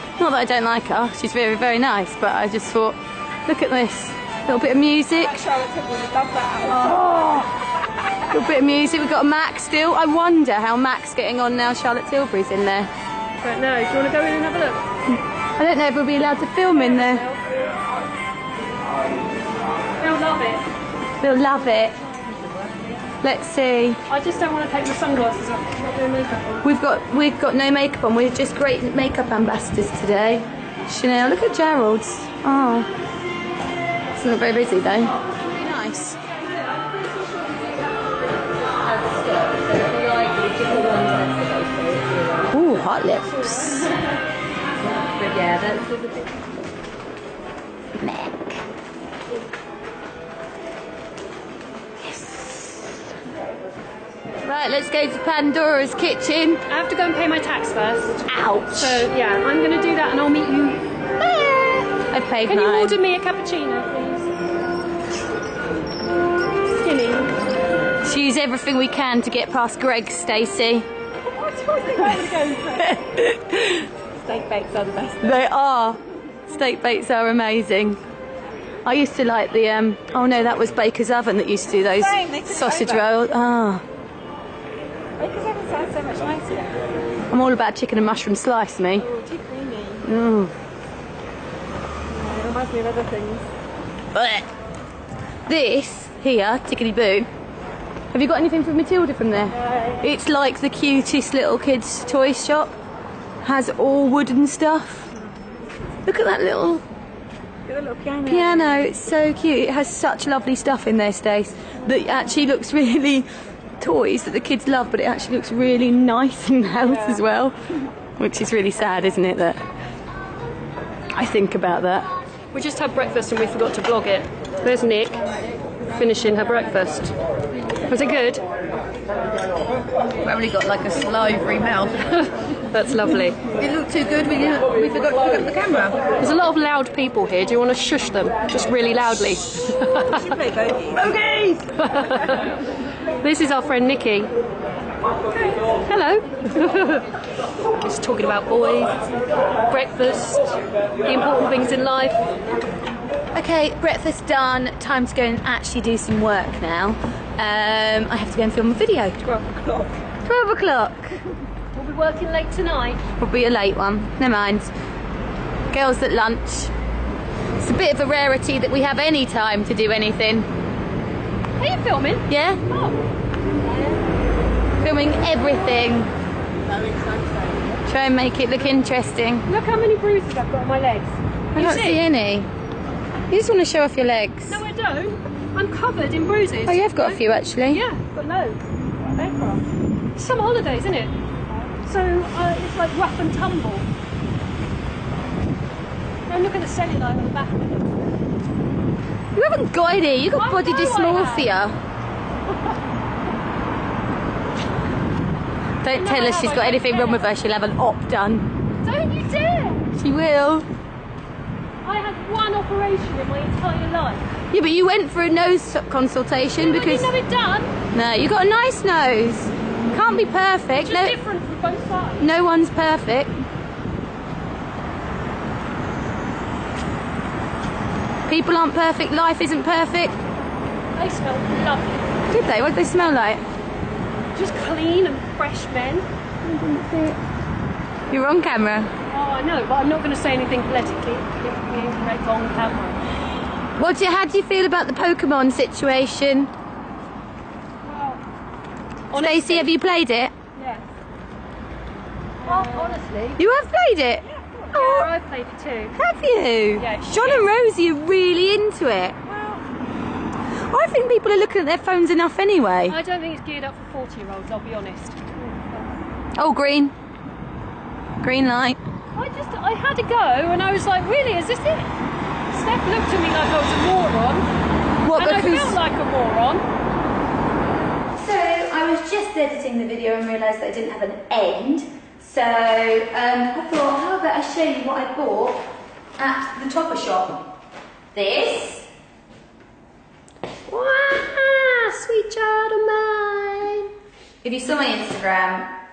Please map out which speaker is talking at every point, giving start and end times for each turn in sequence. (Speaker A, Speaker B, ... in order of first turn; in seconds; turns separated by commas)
Speaker A: 0.2-5.4, Speaker B: 5.4-6.8, Speaker A: 6.6-7.5, Speaker A: 8.1-12.9, Speaker C: 13.4-14.8, Speaker A: 15.6-17.3, Speaker C: 16.7-17.4, Speaker C: 20.0-20.6, Speaker A: 21.2-21.9, Speaker A: 23.2-24.0, Speaker C: 24.1-26.6, Speaker A: 26.6-32.9, Speaker A: 34.1-36.2, Speaker A: 38.8-44.0, Speaker A: 45.0-46.4, Speaker A: 48.0-48.6, Speaker A: 52.0-53.0, Speaker A: 54.4-56.6, Speaker C: 56.7-60.8, Speaker A: 58.3-59.1, Speaker A: 61.9-63.0, Speaker C: 62.4-64.3, Speaker C: 66.8-67.2, Speaker B: 66.8-67.3, Speaker A: 68.0-70.9, Speaker B: 71.3-72.9, Speaker A: 71.9-73.9, Speaker B: 74.2-75.3, Speaker A: 75.2-78.0, Speaker A: 78.8-83.8, Speaker B: 82.1-82.8, Speaker B: 85.2-86.8, Speaker A: 87.3-89.1, Speaker B: 89.2-90.0, Speaker A: 90.0-90.5, Speaker B: 92.1-93.5, Speaker A: 94.1-94.5, Speaker A: 95.5-97.3, Speaker A: 98.1-102.7, Speaker A: 103.4-105.1, Speaker A: 106.0-106.8, Speaker B: 107.7-108.4, Speaker A: 108.2-113.3, Speaker A: 113.8-117.6, Speaker A: 118.2-119.6, Speaker A: 121.1-122.1, Speaker C: 122.5-125.2, Speaker C: 125.9-127.1, Speaker C: 127.9-128.4, Speaker A: 130.2-132.3, Speaker C: 132.7-133.4, Speaker A: 133.4-136.1, Speaker C: 136.2-140.4, Speaker A: 140.8-141.7, Speaker C: 141.8-142.5, Speaker C: 143.2-144.3, Speaker C: 145.8-147.0, Speaker C: 147.8-149.0, Speaker C: 149.7-152.2, Speaker A: 153.3-159.3, Speaker A: 160.2-161.2, Speaker C: 161.7-163.0, Speaker A: 163.1-164.7, Speaker A: 165.7-166.7, Speaker A: 167.6-170.5, Speaker C: 171.6-173.0, Speaker A: 172.3-172.6, Speaker A: 174.8-176.1, Speaker A: 177.8-179.5, Speaker C: 179.5-182.0, Speaker A: 181.5-182.5, Speaker A: 183.3-184.6, Speaker C: 184.5-188.6, Speaker A: 186.7-187.8, Speaker B: 189.1-189.6, Speaker C: 190.2-191.1, Speaker C: 191.8-193.9, Speaker C: 196.3-197.9, Speaker A: 199.3-201.8, Speaker C: 200.3-201.5, Speaker A: 205.8-208.5, Speaker C: 205.9-207.3, Speaker C: 208.8-209.9, Speaker A: 209.9-210.7, Speaker C: 211.8-214.3, Speaker A: 214.5-217.1, Speaker C: 216.6-217.7, Speaker A: 217.9-221.2, Speaker C: 220.7-222.2, Speaker A: 222.2-223.4, Speaker A: 228.3-230.2, Speaker C: 230.9-232.1, Speaker A: 232.3-233.4, Speaker C: 234.3-236.1, Speaker A: 236.5-237.1, Speaker A: 238.1-238.9, Speaker C: 239.1-243.0, Speaker A: 243.7-246.5, Speaker C: 247.8-248.2, Speaker C: 249.1-249.7, Speaker A: 249.1-250.3, Speaker B: 250.6-250.8, Speaker C: 252.4-253.4, Speaker B: 252.4-252.9, Speaker A: 253.4-255.1, Speaker C: 254.7-255.9, Speaker A: 255.9-259.2, Speaker C: 256.8-257.5, Speaker B: 259.4-259.6, Speaker A: 260.7-263.0, Speaker C: 262.9-265.2, Speaker A: 266.4-266.9, Speaker A: 268.2-268.8, Speaker C: 269.1-271.9, Speaker C: 272.5-274.5, Speaker A: 275.0-275.8, Speaker C: 275.1-276.6, Speaker A: 278.1-287.4, Speaker A: 288.1-288.9, Speaker C: 290.7-293.9, Speaker A: 294.4-295.7